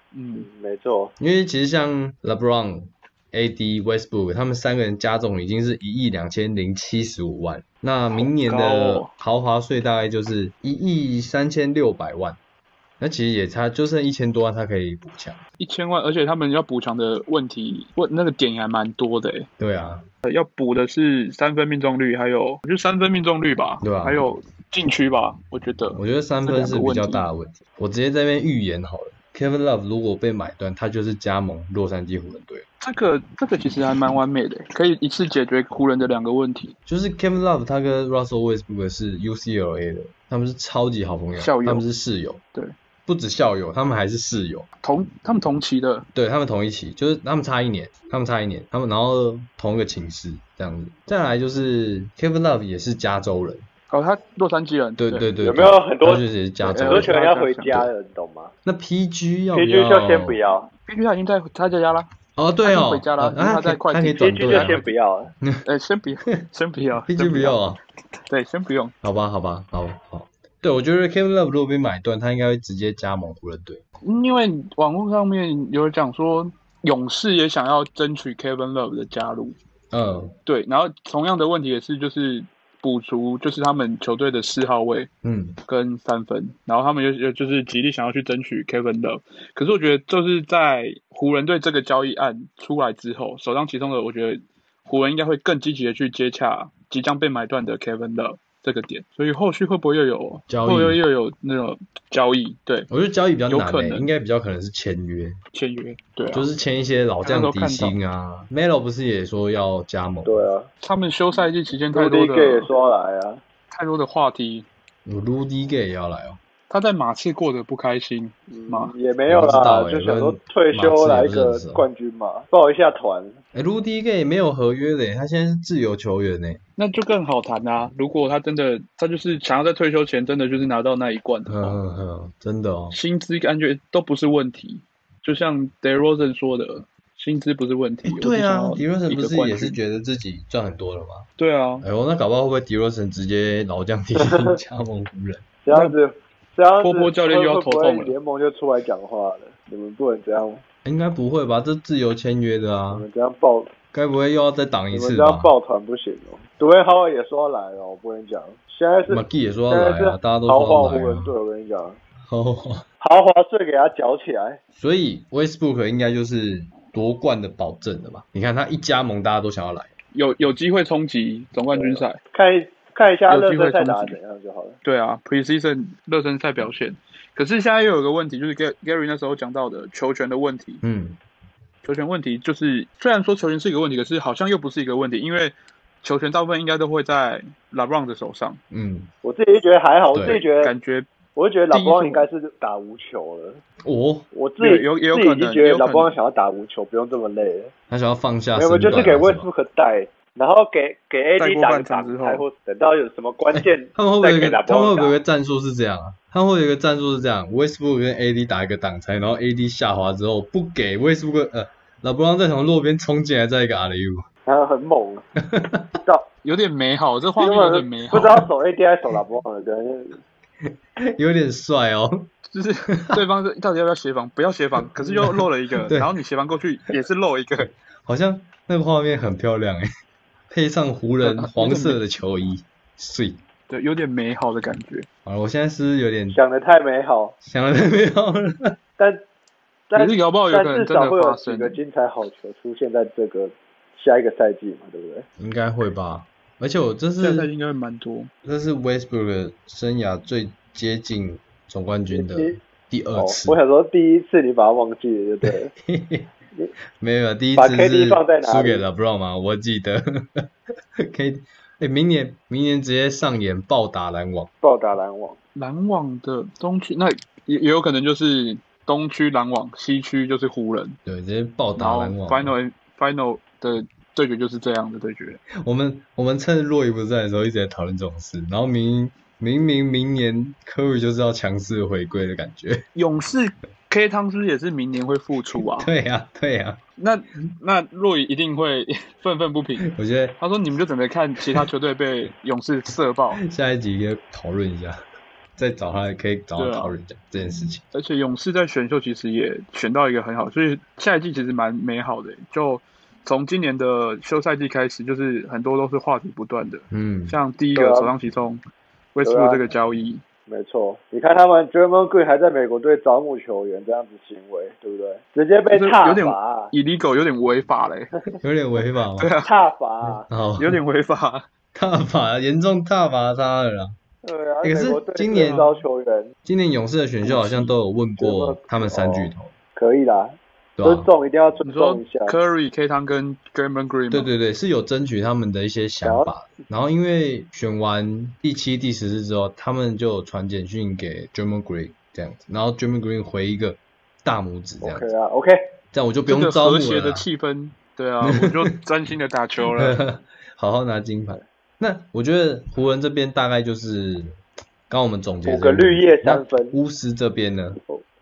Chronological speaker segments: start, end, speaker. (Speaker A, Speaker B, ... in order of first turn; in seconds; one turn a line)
Speaker A: 0.1-0.5
Speaker B: 0.3-1.1
Speaker C: 1.2-12.4
Speaker A: 8.1-9.1
Speaker C: 13.0-15.4
Speaker A: 15.6-19.5
Speaker C: 19.6-20.0
Speaker A: 20.2-27.2
Speaker C: 23.8-24.2
Speaker C: 25.9-32.6
Speaker A: 32.8-36.7
Speaker C: 36.9-42.4
Speaker A: 41.4-41.8
Speaker C: 43.0-44.7
Speaker A: 44.8-46.1
Speaker C: 46.1-53.6
Speaker A: 53.9-55.2
Speaker C: 55.0-57.1
Speaker B: 55.4-58.5
Speaker A: 56.7-57.8
Speaker C: 58.6-60.4
Speaker B: 59.5-60.7
Speaker A: 60.9-62.1
Speaker C: 62.4-65.6
Speaker A: 62.6-64.7
Speaker B: 64.3-65.3
Speaker A: 65.6-67.6
Speaker C: 67.1-67.8
Speaker A: 68.3-68.9
Speaker C: 69.0-73.8
Speaker A: 74.0-79.6
Speaker C: 79.9-80.3
Speaker A: 80.5-85.1
Speaker C: 85.2-85.6
Speaker A: 85.7-102.9
Speaker C: 100.5-101.0
Speaker C: 102.9-105.4
Speaker A: 103.5-104.1
Speaker A: 105.5-106.5
Speaker C: 106.3-110.5
Speaker A: 107.2-107.9
Speaker B: 110.2-110.7
Speaker A: 110.8-112.7
Speaker B: 111.9-113.4
Speaker A: 113.7-114.7
Speaker C: 115.0-116.4
Speaker A: 116.7-118.9
Speaker B: 118.5-123.4
Speaker C: 119.3-121.8
Speaker C: 123.5-126.6
Speaker A: 126.8-131.8
Speaker C: 131.5-132.9
Speaker A: 132.9-139.8
Speaker C: 138.0-141.3
Speaker A: 141.4-141.8
Speaker C: 141.8-145.4
Speaker B: 144.2-144.6
Speaker B: 145.6-150.6
Speaker A: 146.8-148.1
Speaker C: 150.8-153.1
Speaker B: 152.9-153.7
Speaker C: 153.9-155.5
Speaker B: 154.9-162.0
Speaker C: 159.1-161.3
Speaker C: 162.2-162.8
Speaker B: 163.0-164.6
Speaker C: 164.8-169.9
Speaker A: 170.1-172.2
Speaker B: 171.7-174.8
Speaker A: 173.3-174.2
Speaker A: 174.8-180.8
Speaker C: 180.8-181.2
Speaker A: 181.8-188.6
Speaker C: 188.7-189.1
Speaker B: 189.2-190.7
Speaker C: 190.1-190.4
Speaker A: 190.6-191.1
Speaker B: 191.3-193.6
Speaker A: 191.7-192.3
Speaker C: 193.8-194.3
Speaker B: 194.3-197.7
Speaker A: 194.6-196.1
Speaker C: 197.9-199.5
Speaker B: 198.5-205.2
Speaker A: 201.4-202.4
Speaker C: 203.5-214.2
Speaker B: 214.4-215.2
Speaker C: 215.4-215.9
Speaker A: 216.4-218.4
Speaker B: 217.4-220.2
Speaker C: 221.1-222.3
Speaker A: 222.5-227.7
Speaker C: 222.9-223.2
Speaker C: 225.0-226.1
Speaker C: 228.0-229.9
Speaker C: 230.5-233.4
Speaker A: 231.2-232.0
Speaker A: 233.7-235.1
Speaker C: 235.2-236.4
Speaker B: 236.3-237.3
Speaker C: 237.4-238.8
Speaker B: 239.0-239.2
Speaker B: 239.9-245.2
Speaker A: 239.9-241.8
Speaker C: 245.4-247.5
Speaker A: 247.2-248.3
Speaker C: 248.4-253.6
Speaker B: 252.1-252.6
Speaker B: 253.2-255.7
Speaker C: 255.4-256.3
Speaker C: 257.0-260.5
Speaker B: 257.6-258.8
Speaker C: 261.0-264.5
Speaker B: 264.6-265.4
Speaker A: 265.6-271.0
Speaker C: 271.1-272.5
Speaker A: 271.8-275.4
Speaker C: 275.6-282.8
Speaker A: 282.9-285.9
Speaker C: 285.6-286.8
Speaker A: 287.0-293.4
Speaker C: 289.9-290.4
Speaker C: 293.4-295.0
Speaker C: 295.6-297.8
Speaker A: 296.6-296.9
Speaker A: 297.9-308.6
Speaker C: 306.9-307.4
Speaker B: 307.7-308.1
Speaker A: 309.1-310.2
Speaker B: 309.2-309.7
Speaker B: 310.5-316.7
Speaker A: 315.7-318.1
Speaker C: 318.4-319.3
Speaker A: 319.2-319.5
Speaker B: 319.4-320.3
Speaker C: 320.0-320.8
Speaker A: 320.6-321.5
Speaker C: 321.7-323.9
Speaker B: 324.2-326.3
Speaker C: 324.6-325.7
Speaker A: 325.4-325.6
Speaker C: 326.4-329.5
Speaker A: 327.2-327.7
Speaker B: 328.2-332.4
Speaker C: 330.8-331.1
Speaker A: 331.6-334.3
Speaker C: 334.1-345.1
Speaker B: 336.0-336.3
Speaker B: 344.8-345.6
Speaker C: 345.9-347.2
Speaker A: 346.3-350.0
Speaker C: 348.2-348.5
Speaker C: 349.8-357.8
Speaker B: 355.4-356.8